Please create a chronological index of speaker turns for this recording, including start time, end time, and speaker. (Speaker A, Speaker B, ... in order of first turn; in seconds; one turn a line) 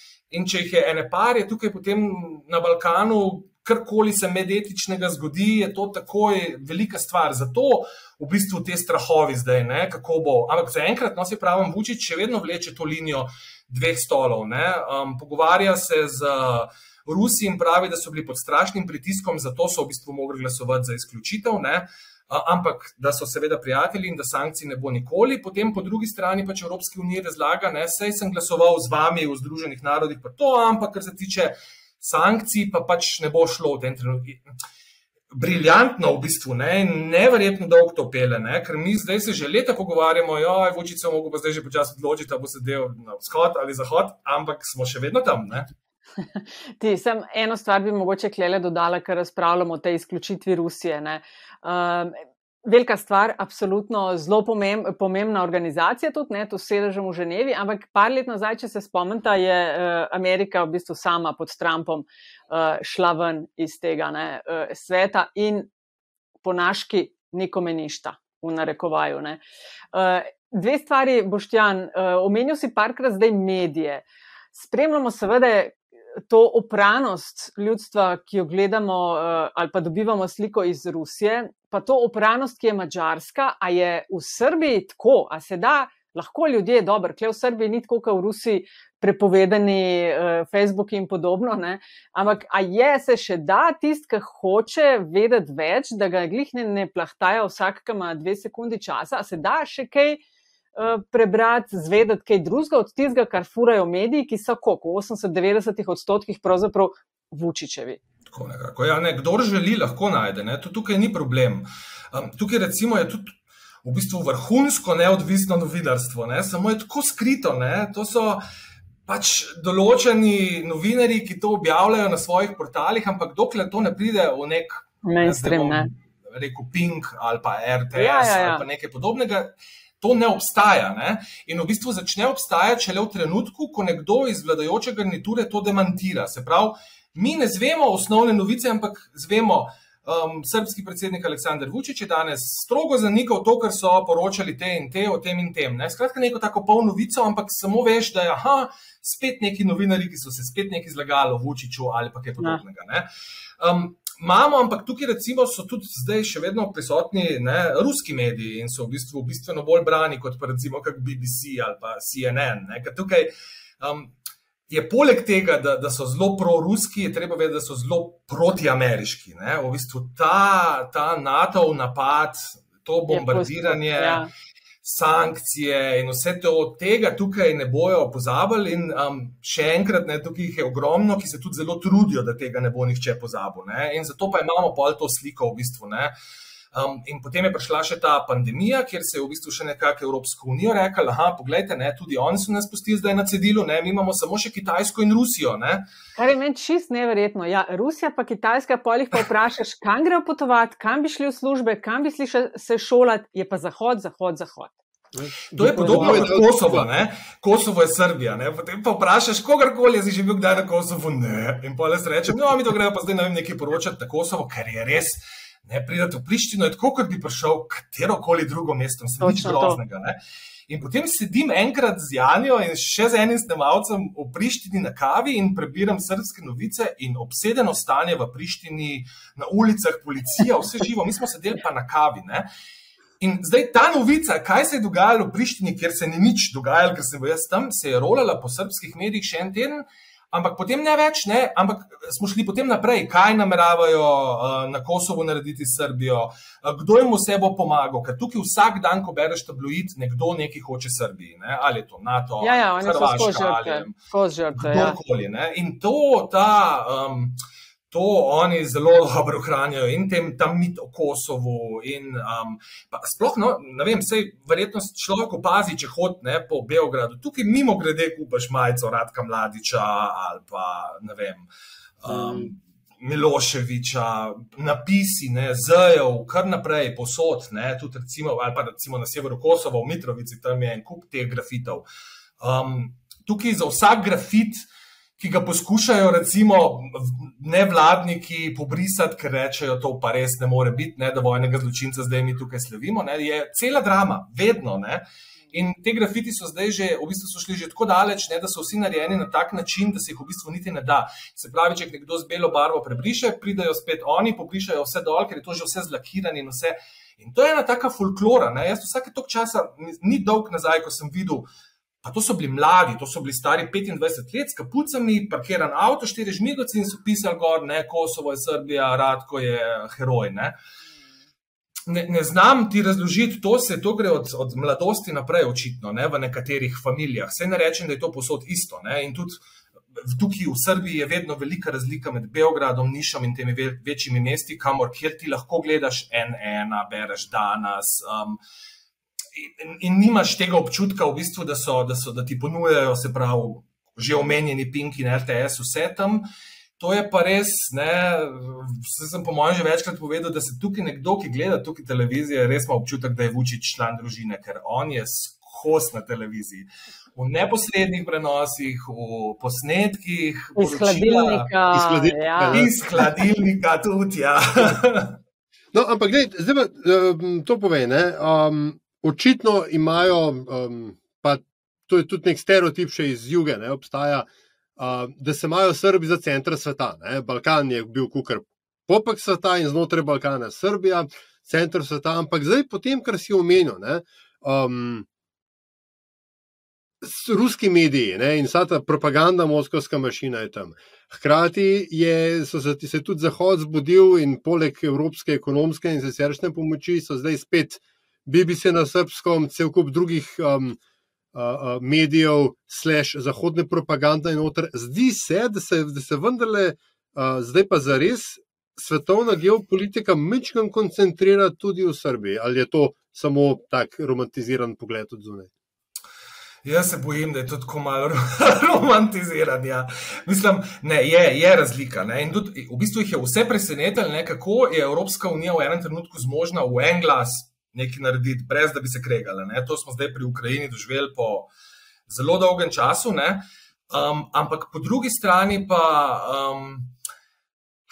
Speaker A: 0.3-34.4
Speaker A: 35.3-45.7
Speaker B: 46.8-65.7
Speaker B: 66.4-69.4
Speaker B: 69.9-100.2
Speaker B: 100.8-108.0
Speaker A: 108.3-113.3
Speaker A: 113.8-118.4
Speaker A: 119.1-153.1
Speaker B: 125.0-125.9
Speaker B: 127.9-128.6
Speaker A: 153.6-164.1
Speaker A: 164.7-174.2
Speaker B: 173.1-174.3
Speaker A: 174.8-186.1
Speaker A: 186.7-195.8
Speaker B: 196.2-204.7
Speaker C: 205.2-206.9
Speaker A: 205.6-220.2
Speaker B: 205.8-206.2
Speaker B: 219.2-219.8
Speaker A: 220.7-232.5
Speaker A: 233.2-253.9
Speaker B: 252.4-255.0
Speaker A: 254.5-257.4
Speaker A: 257.9-271.5
Speaker A: 272.0-281.8
Speaker A: 282.4-284.6
Speaker A: 285.2-311.5
Speaker A: 312.0-320.5
Speaker A: 321.9-329.4
Speaker A: 330.0-338.4
Speaker A: 339.4-346.2
Speaker A: 346.8-361.5
Speaker B: 360.6-362.6
Speaker C: 361.7-362.8
Speaker A: 362.5-365.2
Speaker C: 365.7-385.1
Speaker C: 387.0-400.8
Speaker C: 401.3-415.5
Speaker A: 416.6-431.5
Speaker A: 432.1-436.9